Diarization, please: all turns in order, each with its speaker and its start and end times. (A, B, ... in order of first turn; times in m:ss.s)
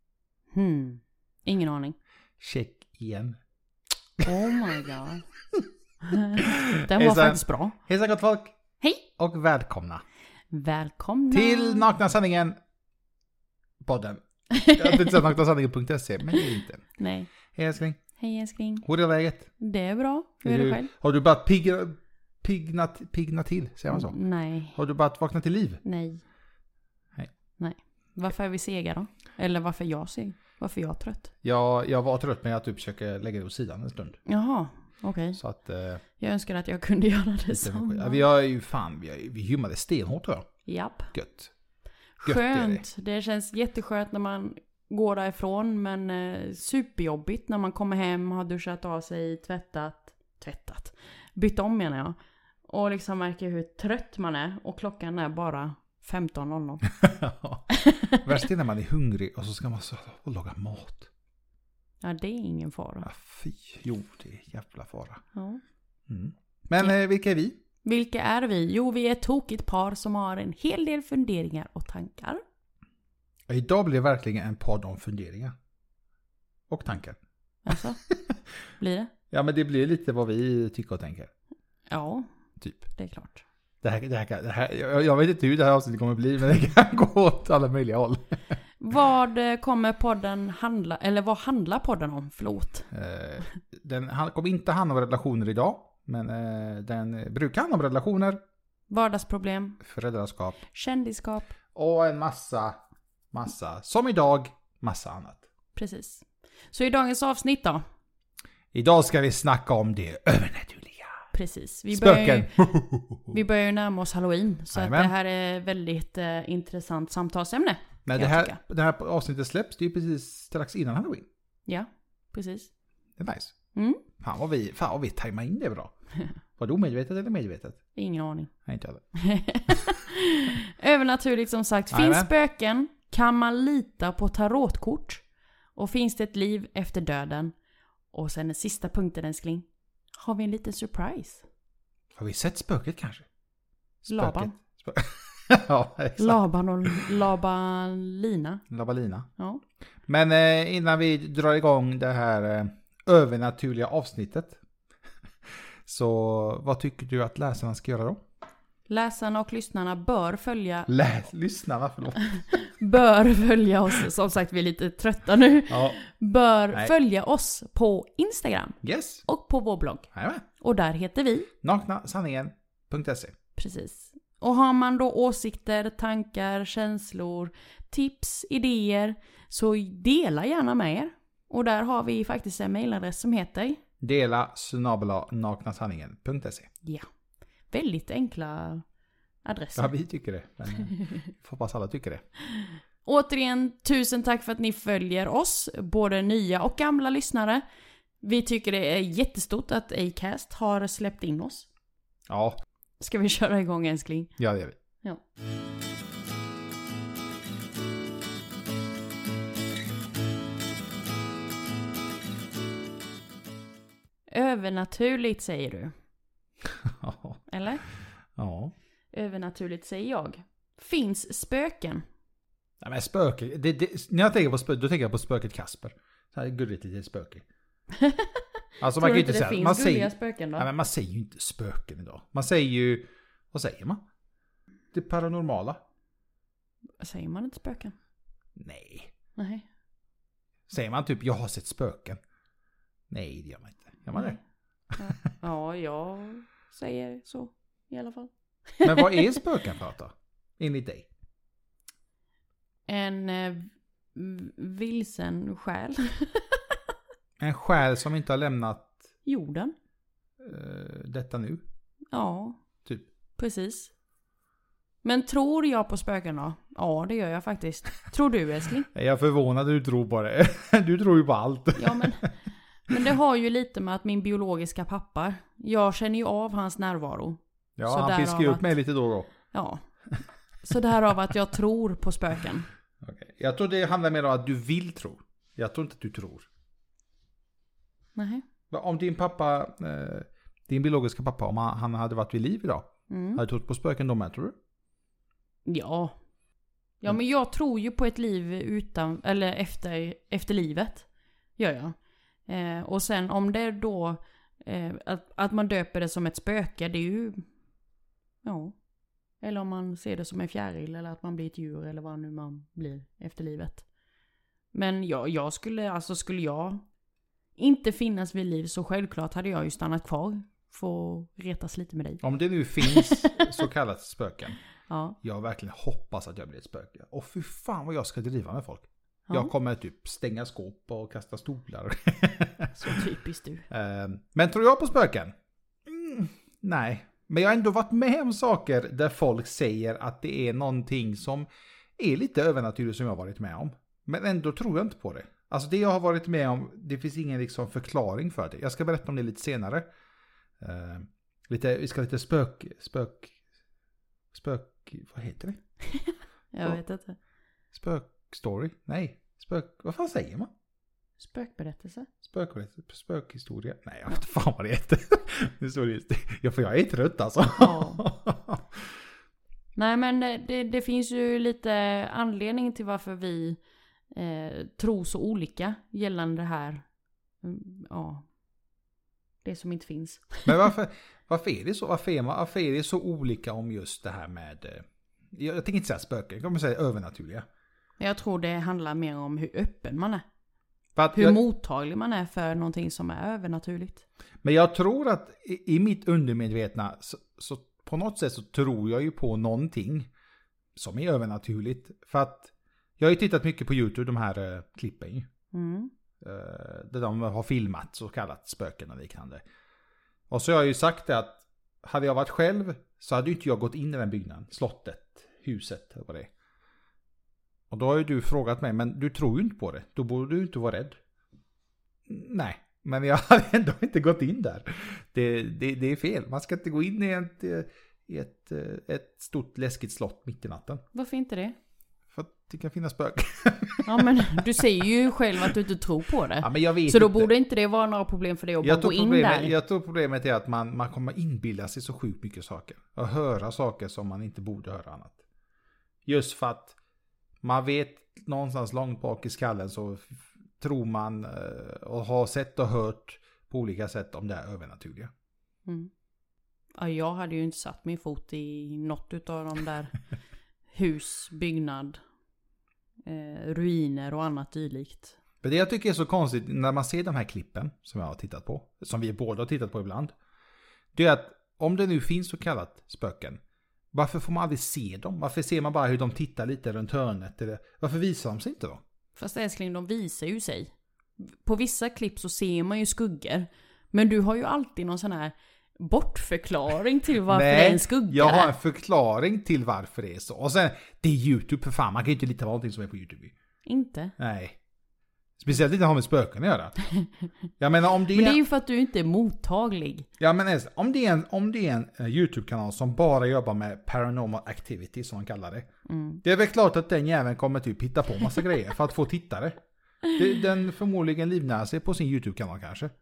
0:00.5-0:01.9 A
0:02.4-0:03.4 B
0:04.2-0:04.7 B
0:04.2-0:05.2 A
0:06.0-0:07.8 A
0:06.2-0:08.6 B
0:09.2-0:10.0 B
0:10.5-0:11.9 A
0:11.3-0:12.6 B
0:13.8-0:16.8 B
0:14.5-0:15.2 A
0:17.0-0:17.3 A
0:17.5-0:18.0 B
0:18.2-0:18.8 A
0:18.8-0:19.5 B
0:19.6-0:20.9 A
0:20.4-0:24.2 B
0:23.9-0:24.8 A
0:24.7-0:25.8 B
0:25.8-0:26.2 A
0:27.6-0:31.3 A
0:31.4-0:34.2 B
0:34.2-0:35.4 A
0:35.4-0:36.0 B
0:36.2-0:38.2 A
0:37.5-0:40.5 B
0:40.6-0:41.1 A
0:41.1-0:41.5 B
0:42.2-0:56.8 A
0:42.2-0:42.8 B
0:56.8-1:01.1 B
0:57.8-0:58.2 A
1:02.0-1:03.0 A
1:03.0-1:05.2 B
1:05.3-1:05.6 A
1:06.1-1:07.6 B
1:07.8-1:12.4 A
1:13.5-1:15.5 B
1:16.7-1:17.2 B
1:17.6-1:18.0 A
1:18.1-1:18.4 B
1:18.8-1:19.1 A
1:19.3-1:21.3 B
1:21.9-1:22.3 A
1:22.9-1:23.4 A
1:23.8-1:28.5 B
1:28.8-1:32.9 A
1:32.9-1:38.4 B
1:38.9-1:39.8 A
1:39.8-1:40.6 B
1:40.7-1:41.5 A
1:41.7-1:42.8 B
1:43.3-1:45.4 B
1:45.7-1:47.8 A
1:48.7-1:51.3 B
1:51.3-1:52.5 A
1:51.9-1:53.4 B
1:53.3-1:58.6 A
1:54.7-1:55.1 B
1:58.0-2:01.3 B
2:01.7-2:02.7 A
2:03.2-2:03.5 B
2:03.7-2:04.0 A
2:04.2-2:05.9 B
2:06.6-2:07.8 B
2:07.9-2:08.5 A
2:08.6-2:09.0 B
2:09.1-2:15.2 A
2:11.9-2:12.3 B
2:15.8-2:17.5 A
2:18.1-2:19.6 A
2:20.2-2:21.4 A
2:22.1-2:23.2 B
2:24.0-2:27.0 B
2:24.1-2:24.5 A
2:26.2-2:28.6 A
2:28.7-2:29.3 B
2:30.1-2:34.6 B
2:35.8-2:38.2 B
2:38.9-2:40.9 A
2:40.9-2:42.6 B
2:42.3-2:50.1 A
2:45.7-2:46.0 B
2:48.8-2:49.2 B
2:50.1-2:50.4 B
2:50.6-2:51.5 A
2:51.6-2:53.4 B
2:53.6-3:03.8 A
3:04.0-3:06.7 B
3:07.7-3:08.8 A
3:09.4-3:09.9 A
3:09.8-3:12.2 B
3:10.9-3:11.1 A
3:12.4-3:17.6 A
3:18.2-3:21.7 A
3:22.3-3:22.6 B
3:23.0-3:24.3 A
3:24.4-3:24.8 B
3:34.3-3:35.9 A
3:36.8-3:37.4 B
3:37.5-3:37.8 A
3:38.4-3:38.7 B
3:39.1-3:42.0 A
3:42.8-3:47.4 B
3:47.9-3:50.7 A
3:48.8-3:54.0 B
3:54.9-3:55.8 B
3:57.0-3:57.9 A
3:58.6-3:59.1 B
3:59.4-3:59.6 A
4:00.7-4:02.2 B
4:03.1-4:04.4 B
4:04.1-4:04.4 A
4:05.0-4:09.4 A
4:08.8-4:11.0 B
4:12.9-4:16.8 A
4:17.4-4:19.0 B
4:19.2-4:19.7 A
4:20.4-4:21.6 B
4:22.1-4:22.6 A
4:23.4-4:23.9 A
4:25.0-4:28.9 A
4:28.9-4:32.3 B
4:31.8-4:32.3 A
4:32.9-4:38.7 A
4:37.8-4:39.3 B
4:39.5-4:39.8 A
4:40.6-4:42.7 A
4:43.0-4:46.5 B
4:48.1-4:48.4 A
4:48.7-4:54.6 B
4:53.1-4:53.4 A
4:55.6-4:56.1 A
4:57.0-5:01.0 A
5:01.6-5:01.9 A
5:02.4-5:07.5 A
5:08.4-5:08.8 A
5:09.4-5:13.8 A
5:14.7-5:16.8 A
5:17.6-5:22.2 A
5:22.2-5:24.6 B
5:22.8-5:23.6 A
5:24.9-5:25.2 A
5:25.2-5:33.0 B
5:32.8-5:33.7 A
5:33.7-5:35.3 B
5:35.9-5:41.5 B
5:42.0-5:49.9 B
5:50.6-5:53.4 B
5:54.3-5:55.6 B
5:55.9-5:57.2 A
5:57.7-6:00.5 B
6:01.2-6:02.1 A
6:02.2-6:08.8 B
6:07.6-6:08.0 A
6:09.7-6:13.6 A
6:14.1-6:16.8 A
6:17.4-6:18.2 A
6:19.4-6:20.6 A
6:20.4-6:27.4 B
6:28.0-6:30.2 A
6:31.0-6:31.4 B
6:31.1-6:34.0 A
6:34.4-6:40.1 B
6:40.8-6:45.3 B
6:45.5-6:45.9 A
6:46.2-6:49.4 B
6:50.3-6:56.3 B
6:57.7-7:01.0 B
7:02.1-7:10.8 B
7:10.9-7:11.6 A
7:12.1-7:14.8 B
7:13.8-7:19.5 A
7:16.4-7:17.3 B
7:18.6-7:25.2 B
7:26.0-7:26.8 B
7:27.4-7:35.1 B
7:35.6-7:35.9 A
7:36.8-7:39.9 A
7:40.7-7:42.0 A
7:43.0-7:45.2 A
7:45.4-7:50.1 B
7:50.9-7:53.4 B
7:53.9-7:58.8 B
7:59.2-8:08.5 A
8:07.3-8:13.3 B
8:13.6-8:14.1 A
8:14.2-8:14.6 B
8:15.4-8:16.8 B
8:17.6-8:18.4 B
8:18.1-8:20.1 A
8:20.2-8:25.7 B
8:25.9-8:26.2 A
8:26.2-8:29.6 B
8:30.1-8:32.9 B